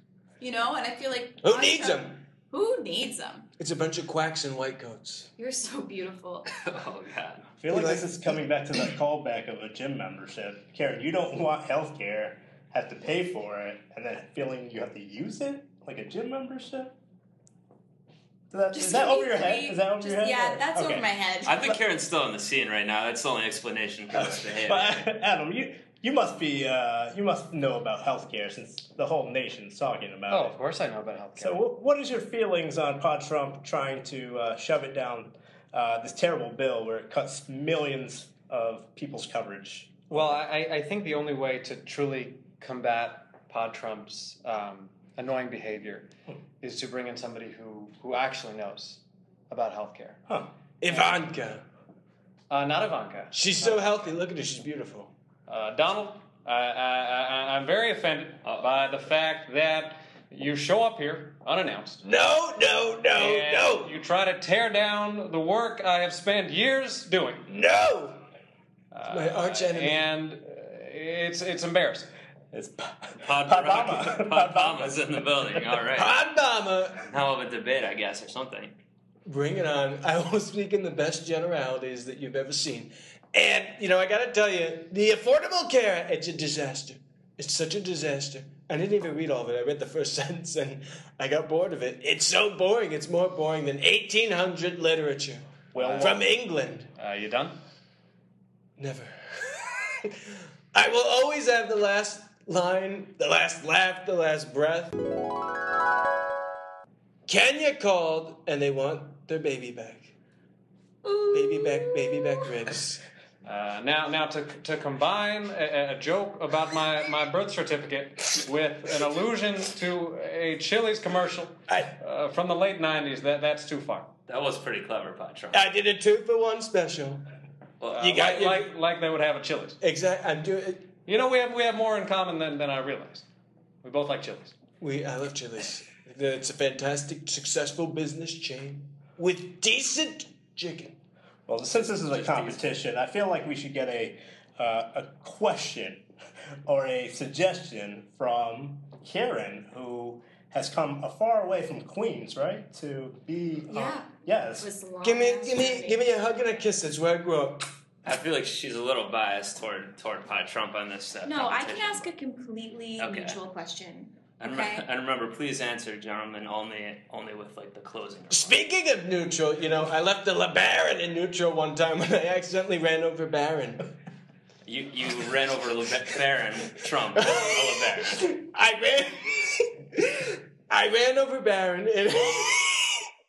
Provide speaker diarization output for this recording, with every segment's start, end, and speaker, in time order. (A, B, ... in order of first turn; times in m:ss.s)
0:00.4-0:03.5 A
0:01.4-0:02.2 B
0:03.6-0:05.3 B
0:05.4-0:06.5 A
0:06.5-0:07.4 C
0:07.6-0:16.9 D
0:07.7-0:08.2 B
0:18.5-0:21.0 D
0:18.7-0:21.8 A
0:21.4-0:25.0 C
0:24.1-0:30.5 D
0:30.3-0:31.6 E
0:31.4-0:40.0 D
0:40.1-0:46.1 E
0:46.6-0:50.2 E
0:50.8-0:51.6 B
0:52.5-0:54.0 E
0:53.3-0:55.1 B
0:55.5-1:02.0 E
1:02.0-1:03.9 B
1:03.1-1:07.4 E
1:07.5-1:08.2 B
1:08.9-1:12.1 E
1:09.1-1:10.0 B
1:12.5-1:15.0 D
1:13.2-1:16.1 C
1:15.9-1:17.0 B
1:17.1-1:18.7 C
1:19.2-1:36.9 B
1:35.7-1:36.1 C
1:35.8-1:36.2 E
1:37.0-1:37.6 E
1:38.8-1:40.2 B
1:40.7-1:44.9 B
1:47.3-1:50.1 B
1:51.0-1:52.4 A
1:51.2-1:53.0 B
1:53.4-2:04.1 E
2:04.3-2:05.7 C
2:05.5-2:07.2 B
2:07.8-2:08.3 C
2:07.9-2:09.8 E
2:08.0-2:08.7 B
2:09.8-2:10.9 B
2:11.0-2:13.2 E
2:13.8-2:14.6 E
2:14.8-2:21.0 B
2:21.5-2:26.0 D
2:22.2-2:22.6 C
2:26.6-2:34.7 D
2:33.7-2:36.0 A
2:35.0-2:37.6 B
2:38.0-2:42.1 C
2:41.2-2:44.8 A
2:43.0-2:43.4 C
2:44.4-2:48.6 C
2:48.3-2:53.8 B
2:54.6-2:58.3 C
2:58.1-3:03.0 B